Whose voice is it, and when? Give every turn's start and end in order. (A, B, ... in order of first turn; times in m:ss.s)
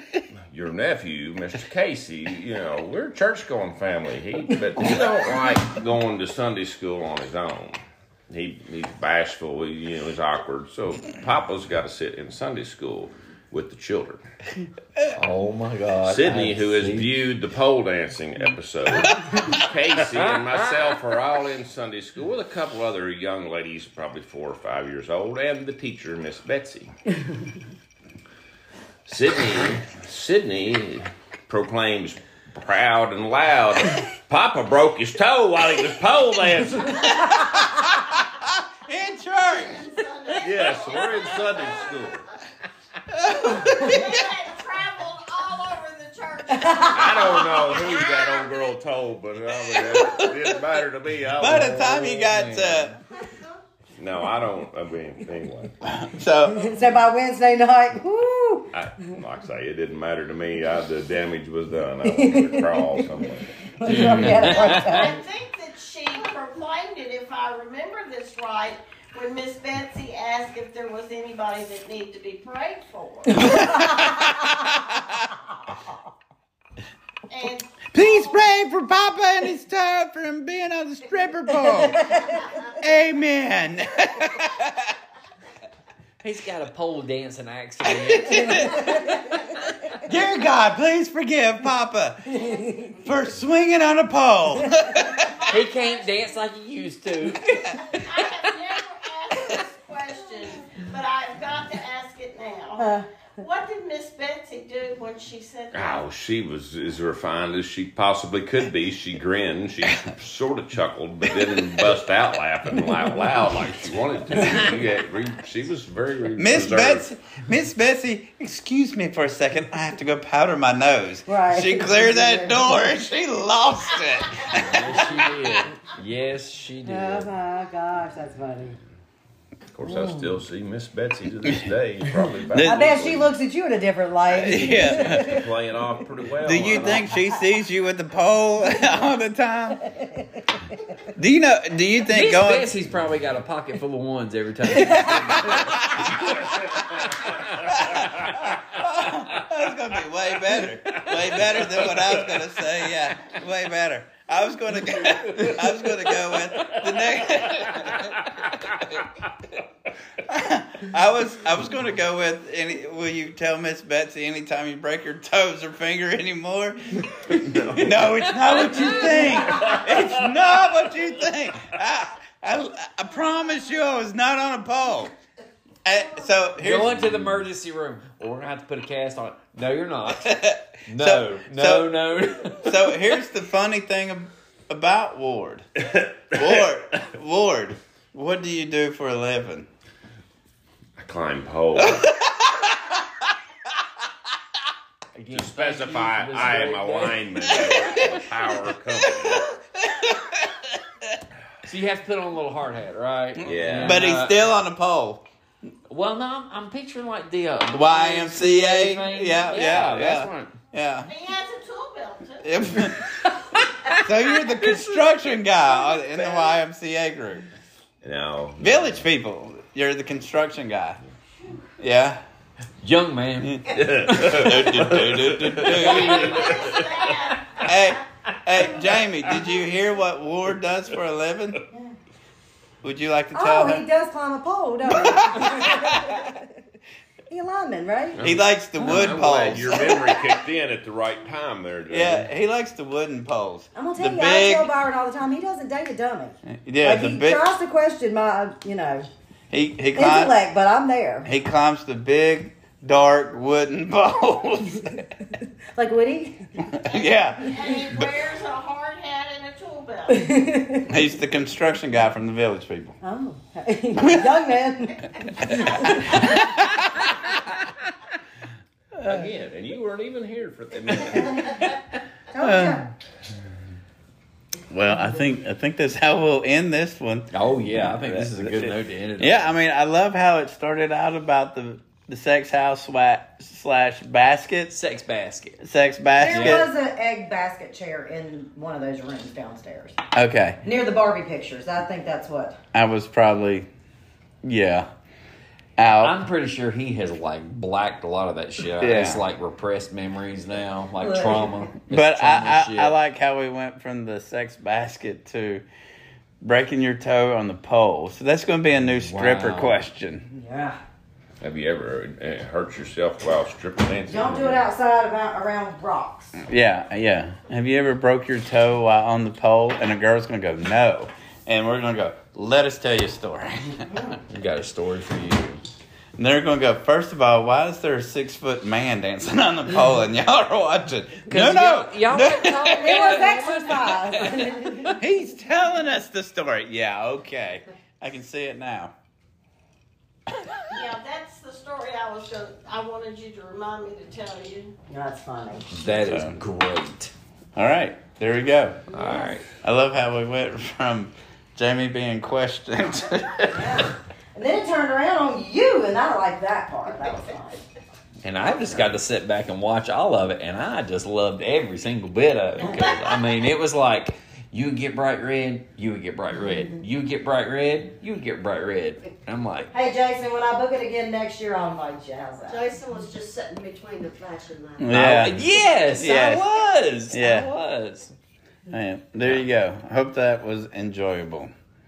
0:00.5-0:14.2 A
0:15.2-0:17.1 B
0:16.0-0:26.9 A
0:20.1-0:21.0 B
0:29.1-0:37.4 A
0:36.9-0:40.4 C
0:39.5-0:42.3 D
0:40.4-0:42.2 A
0:43.1-0:44.2 C
0:43.5-0:48.7 D
0:46.5-0:47.4 E
0:46.9-0:52.0 A
0:51.4-0:53.0 C
0:51.4-0:52.9 B
0:54.0-0:55.8 A
0:55.8-0:56.7 C
0:56.5-0:58.7 E
0:58.7-1:04.0 A
1:02.0-1:03.0 E
1:03.8-1:05.2 E
1:03.8-1:05.1 B
1:04.3-1:13.6 D
1:13.4-1:15.2 C
1:13.4-1:14.5 E
1:17.3-1:18.4 D
1:17.9-1:25.0 C
1:21.9-1:22.4 E
1:26.2-1:29.0 B
1:27.8-1:29.3 C
1:28.7-1:29.4 E
1:30.0-1:35.4 C
1:32.3-1:33.0 E
1:35.0-1:36.3 D
1:35.5-1:38.5 B
1:38.0-1:46.0 D
1:42.8-1:43.1 E
1:45.7-1:57.1 A
1:56.4-2:05.0 C
2:01.3-2:02.6 E
2:04.5-2:07.3 B
2:06.8-2:08.8 E
2:09.7-2:13.3 A
2:09.8-2:10.3 E
2:12.5-2:12.9 C
2:12.6-2:15.4 E
2:14.3-2:15.4 C
2:14.6-2:17.1 A
2:16.4-2:19.8 C
2:19.8-2:21.0 E
2:21.2-2:22.7 C
2:22.1-2:26.4 B
2:24.9-2:26.3 C
2:26.4-2:27.1 A
2:27.7-2:38.1 C
2:27.8-2:28.5 A
2:37.6-2:38.0 A
2:40.2-2:55.1 C
2:48.3-2:49.7 B
2:55.8-2:57.2 C
2:56.6-3:00.3 B
3:00.2-3:01.9 C
3:00.9-3:02.9 B
3:02.6-3:05.7 C
3:05.9-3:06.6 A
3:06.3-3:09.7 C
3:11.0-3:12.1 A
3:11.8-3:13.0 C
3:15.2-3:17.2 B
3:15.3-3:19.5 A
3:17.4-3:18.3 C
3:18.9-3:21.2 C
3:21.6-3:24.3 B
3:23.4-3:24.1 A
3:23.8-3:25.2 C
3:25.9-3:30.5 B
3:27.7-3:31.1 C
3:31.0-3:32.7 D
3:32.4-3:33.1 C
3:32.9-3:35.1 B
3:34.0-3:37.4 C
3:38.0-3:39.0 A
3:38.6-3:41.0 C
3:41.8-3:42.2 C
3:42.8-3:43.7 B
3:43.4-3:46.5 C
3:43.7-3:46.8 A
3:45.8-3:48.0 D
3:47.6-3:51.6 C
3:52.8-3:53.8 C
3:53.3-3:56.4 E
3:54.9-3:56.2 C
3:57.3-3:58.2 E
3:58.2-4:02.3 A
3:58.2-4:00.0 C
3:58.8-3:59.2 B
4:01.9-4:04.7 C
4:03.8-4:09.1 E
4:06.5-4:07.4 C
4:09.5-4:10.3 C
4:09.9-4:11.3 E
4:11.3-4:15.1 C
4:15.8-4:16.5 E
4:16.6-4:18.1 C
4:16.8-4:20.3 D
4:20.1-4:20.9 E
4:20.9-4:23.0 C
4:23.0-4:26.4 E
4:25.5-4:27.4 C
4:29.0-4:29.3 C
4:29.0-4:31.7 A
4:32.3-4:32.9 E
4:32.4-4:32.8 C
4:34.7-4:44.8 C
4:37.3-4:39.5 B
4:44.7-4:45.6 B
4:45.6-4:46.7 C
4:46.2-4:50.0 E
4:46.3-4:46.7 B
4:50.2-4:50.6 C
4:50.6-4:52.6 E
4:52.7-4:53.7 C
4:54.4-4:54.9 C
4:55.8-4:56.2 C
4:56.0-5:03.0 B
4:58.8-4:59.3 C
5:01.0-5:01.7 E
5:01.9-5:05.6 C
5:06.4-5:10.2 C
5:08.9-5:09.8 B
5:10.3-5:10.8 E
5:11.4-5:14.7 A
5:14.1-5:16.4 E
5:16.4-5:24.0 C
5:24.3-5:25.6 B
5:26.2-5:33.2 C
5:31.3-5:34.5 B
5:32.7-5:35.0 E
5:35.0-5:38.9 C
5:40.7-5:44.7 D
5:44.9-5:45.7 E
5:45.7-5:47.1 B
5:46.0-5:46.4 C
5:47.6-5:48.9 C
5:48.9-5:49.5 B
5:49.0-5:49.3 E
5:49.6-5:53.8 C
5:53.5-5:57.6 E
5:58.2-6:09.7 B
6:09.7-6:12.6 E
6:12.5-6:14.9 F
6:14.8-6:16.5 C
6:14.9-6:18.1 B
6:17.1-6:17.5 C
6:18.7-6:21.5 C